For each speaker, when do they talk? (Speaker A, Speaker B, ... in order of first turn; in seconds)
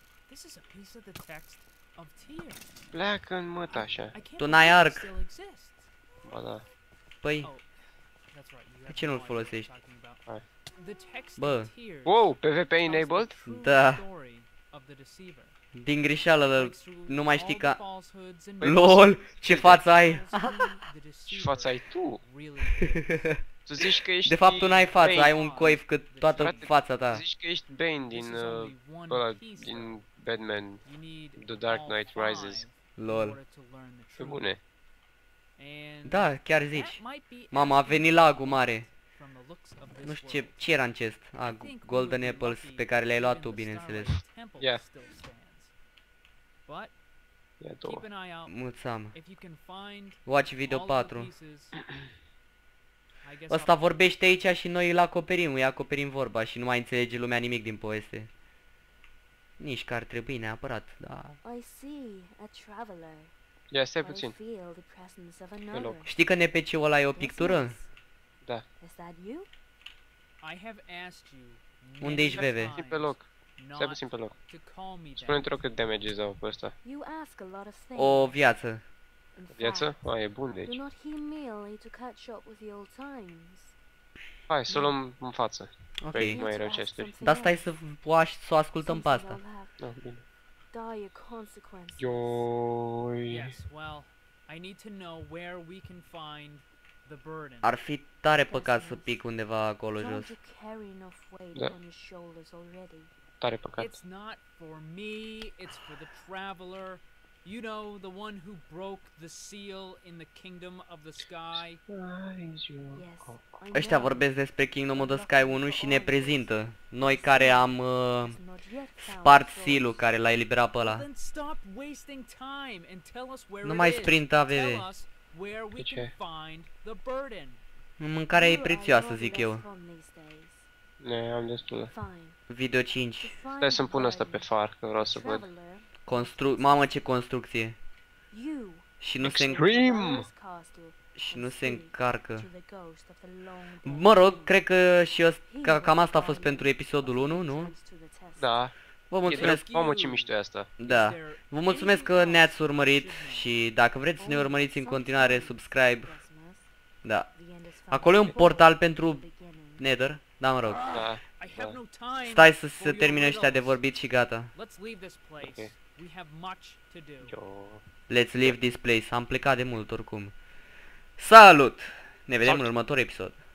Speaker A: 0.3-2.6, 3.7-5.9, 7.4-7.7, 8.3-10.2, 10.7-15.5, 16.5-23.4, 24.6-26.7, 27.9-30.0, 30.8-34.4, 35.6-40.6, 41.4-45.7, 46.6-46.9, 47.8-51.8, 53.2-53.9, 70.4-75.8, 93.3-97.7, 103.8-111.8, 120.8-127.6, 149.3-153.6, 161.4-163.8, 164.5-167.4
Speaker B: 2.9-4.1, 6.2-6.6, 12.0-13.4, 18.6-19.9, 21.3-22.2, 23.6-25.8, 26.4-32.6, 34.2-34.6, 47.6-48.0, 63.7-64.3, 65.7-66.0, 72.3-74.3, 75.2-76.7, 79.5-80.8, 84.5-87.2, 89.8-90.2, 92.0-93.5, 103.4-104.0, 111.9-113.5, 125.8-126.1, 131.0-131.9, 133.6-135.5, 139.2-140.3, 148.3-148.7, 149.2-150.7, 160.9-161.8, 165.4-165.7, 167.2-167.8, 172.4-172.7
Speaker C: 4.4-5.1, 7.2-7.5, 8.9-9.7, 11.4-11.7, 13.5-14.0, 15.8-17.8, 18.6-20.7, 23.8-27.2, 33.0-33.4, 36.0-38.9, 40.0-44.1, 48.5-49.1, 50.2-51.3, 53.5-58.3, 59.6-61.4, 66.0-67.8, 72.0-72.8, 77.9-78.8, 86.0-86.4, 87.2-89.4, 97.6-100.3, 113.7-118.4, 119.0-121.1, 123.6-124.9, 128.0-129.6, 132.5-133.3, 136.0-137.8, 139.0-139.7, 141.2-142.5, 143.8-147.7, 149.1-149.6, 150.8-156.1, 157.0-157.3, 157.9-159.2, 159.8-160.8, 162.2-164.5, 168.1-170.3, 171.2-173.3
Speaker D: 61.4-63.3, 64.0-66.1, 67.1-67.9, 68.8-69.5, 76.8-78.4, 79.3-79.9, 80.6-83.7, 84.7-85.0, 86.2-87.6, 88.8-89.8, 90.7-92.5, 98.4-99.2, 99.9-103.1, 112.9-120.0, 128.3-130.7, 131.9-132.4, 133.2-134.5, 135.1-137.1, 138.3-144.6, 145.4-148.6, 151.7-152.2, 154.2-156.7, 157.3-159.8